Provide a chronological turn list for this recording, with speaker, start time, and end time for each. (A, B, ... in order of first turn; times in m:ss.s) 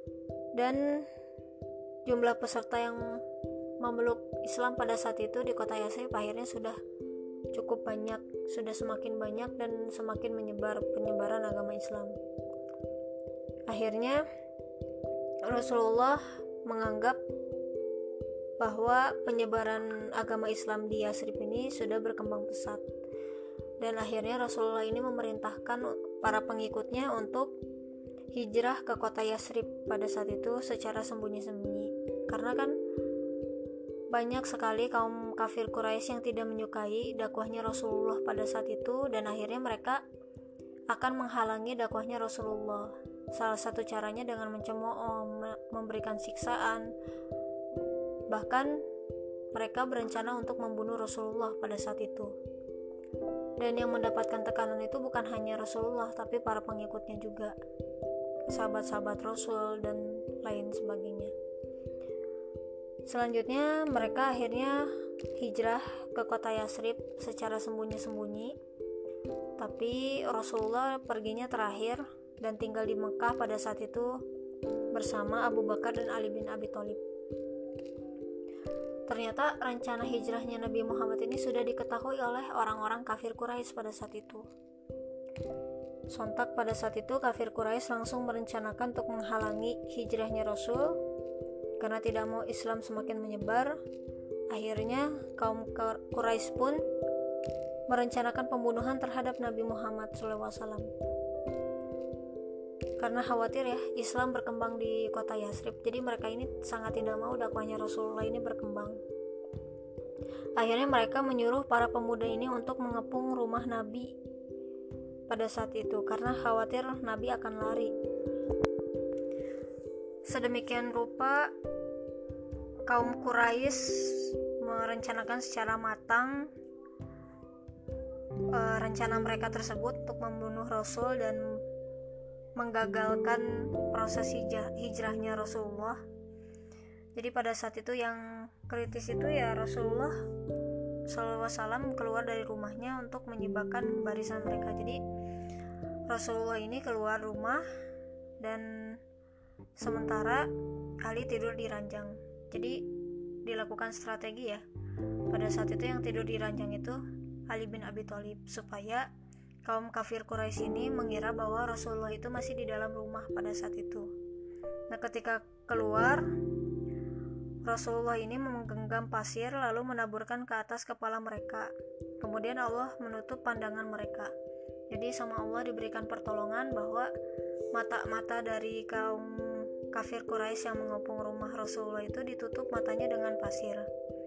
0:00.5-0:01.1 A
0:02.0-0:03.2 A
0:03.8-0:06.8 A
0:07.5-0:12.2 A
0:13.7-0:14.2 A
0:15.4-0:17.2 A
0:18.6-0:22.8 A
0:23.8-0:27.6 A
0:28.3-0:32.8 A
0:34.1-0:40.0 A
0:40.9-0:46.9 A
0:48.3-0:48.8 A
0:49.5-0:52.3 A
0:53.6-0:57.6 A
0:58.5-1:01.3 A
1:03.0-1:08.6 A
1:09.6-1:14.2 A
1:14.9-1:17.0 A
1:19.1-1:24.5 A
1:26.1-1:31.0 A
1:31.8-1:33.8 A
1:34.5-1:36.8 A
1:37.9-1:40.9 A
1:43.0-1:49.0 A
1:50.6-1:54.1 A
1:55.3-1:57.9 A
2:00.2-2:01.5 A
2:02.8-2:06.5 A
2:08.5-2:11.6 A
2:12.6-2:16.0 A
2:17.1-2:20.2 A
2:21.1-2:25.0 A
2:26.1-2:27.6 A
2:28.4-2:29.0 A
2:29.8-2:30.5 A
2:31.0-2:32.9 A
2:33.4-2:34.6 A
2:35.3-2:39.1 A
2:39.6-2:44.1 A
2:44.9-2:46.3 A
2:47.6-2:54.3 A
2:54.9-2:57.1 A
2:57.7-3:03.9 A